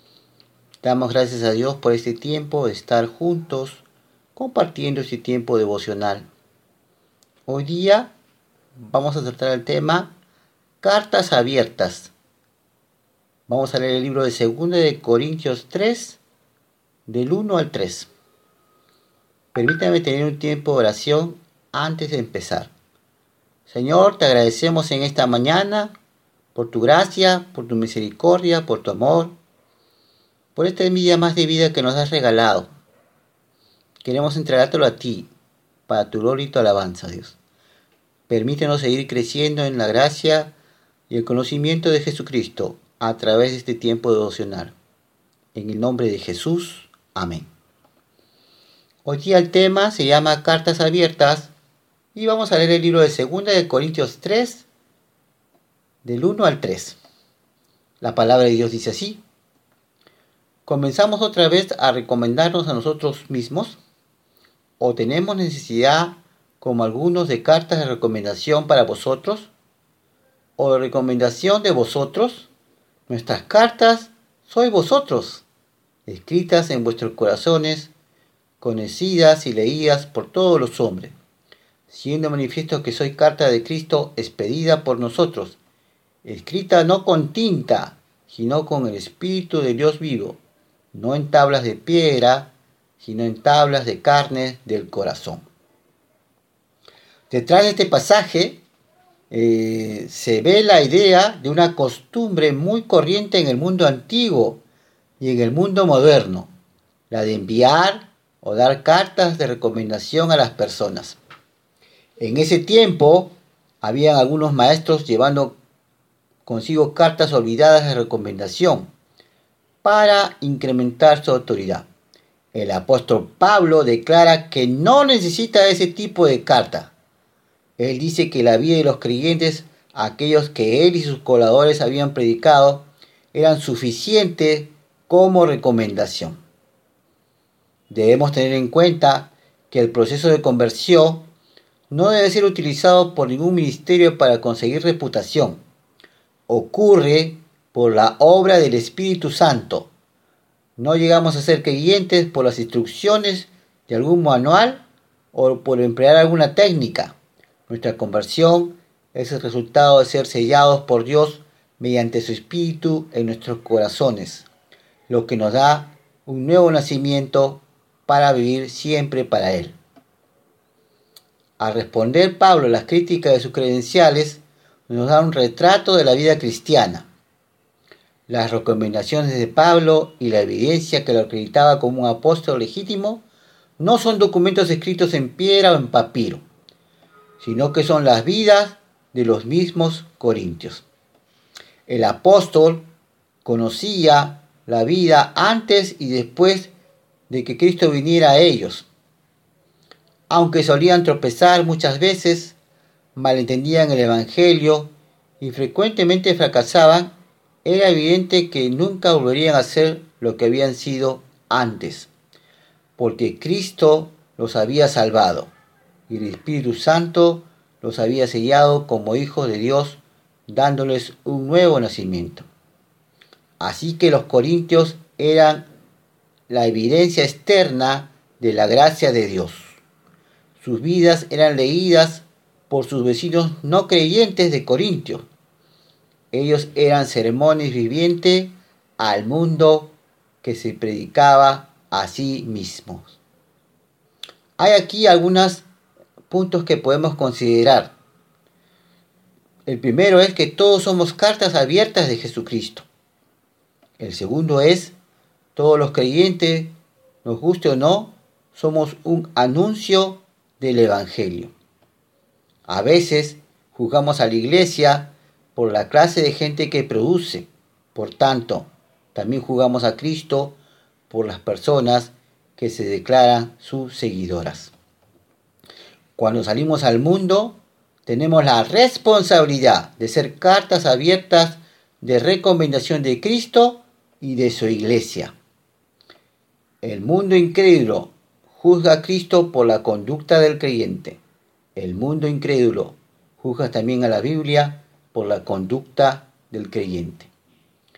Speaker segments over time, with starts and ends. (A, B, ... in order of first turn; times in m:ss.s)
0:00.8-0:03.8 A
0:04.4-0:06.3 A
0:07.5-0:08.1 A
0:08.9-0:10.1 A
0:10.8-0:12.1 A
0:13.5-0:16.2 A
0:17.1-0:18.1 A
0:19.5-0:22.7 A
0:23.7-0:25.9 A
0:26.6-0:29.4 A
0:30.6-0:32.7 A
0:34.0-0:35.3 A
0:35.9-0:37.4 A
0:38.3-0:40.5 A
0:41.1-0:44.8 A
0:45.5-0:47.5 A
0:49.0-0:51.5 A
0:52.2-0:54.7 A
0:56.0-0:57.0 A
0:58.0-0:59.2 A
1:00.7-1:03.8 A
1:04.8-1:09.5 A
1:10.6-1:12.5 A
1:13.1-1:15.4 A
1:16.1-1:17.9 A
1:18.6-1:21.2 A
1:21.9-1:25.6 A
1:26.2-1:30.4 A
1:30.9-1:35.4 A
1:37.3-1:38.6 A
1:39.3-1:44.6 A
1:45.2-1:46.5 A
1:47.1-1:51.2 A
1:52.2-1:55.6 A
1:56.4-1:58.9 A
1:59.8-2:01.9 A
2:02.5-2:06.9 A
2:07.8-2:16.4 A
2:17.9-2:21.2 A
2:21.9-2:25.6 A
2:26.5-2:29.9 A
2:30.8-2:37.2 A
2:37.7-2:44.5 A
2:45.1-2:49.8 A
2:51.6-2:57.1 A
2:58.3-3:03.2 A
3:03.8-3:06.4 A
3:07.4-3:10.8 A
3:11.9-3:12.8 A
3:13.4-3:16.7 A
3:17.3-3:18.9 A
3:20.3-3:22.6 A
3:23.2-3:27.1 A
3:27.6-3:32.1 A
3:33.0-3:35.5 A
3:36.1-3:42.5 A
3:43.6-3:45.7 A
3:46.5-3:49.8 A
3:50.6-3:55.2 A
3:56.3-4:03.2 A
4:04.6-4:05.7 A
4:06.3-4:07.9 A
4:09.7-4:12.9 A
4:14.0-4:14.9 A
4:15.6-4:16.7 A
4:17.2-4:21.5 A
4:22.7-4:30.6 A
4:31.1-4:34.7 A
4:36.2-4:45.3 A
4:46.8-4:51.2 A
4:51.8-4:57.3 A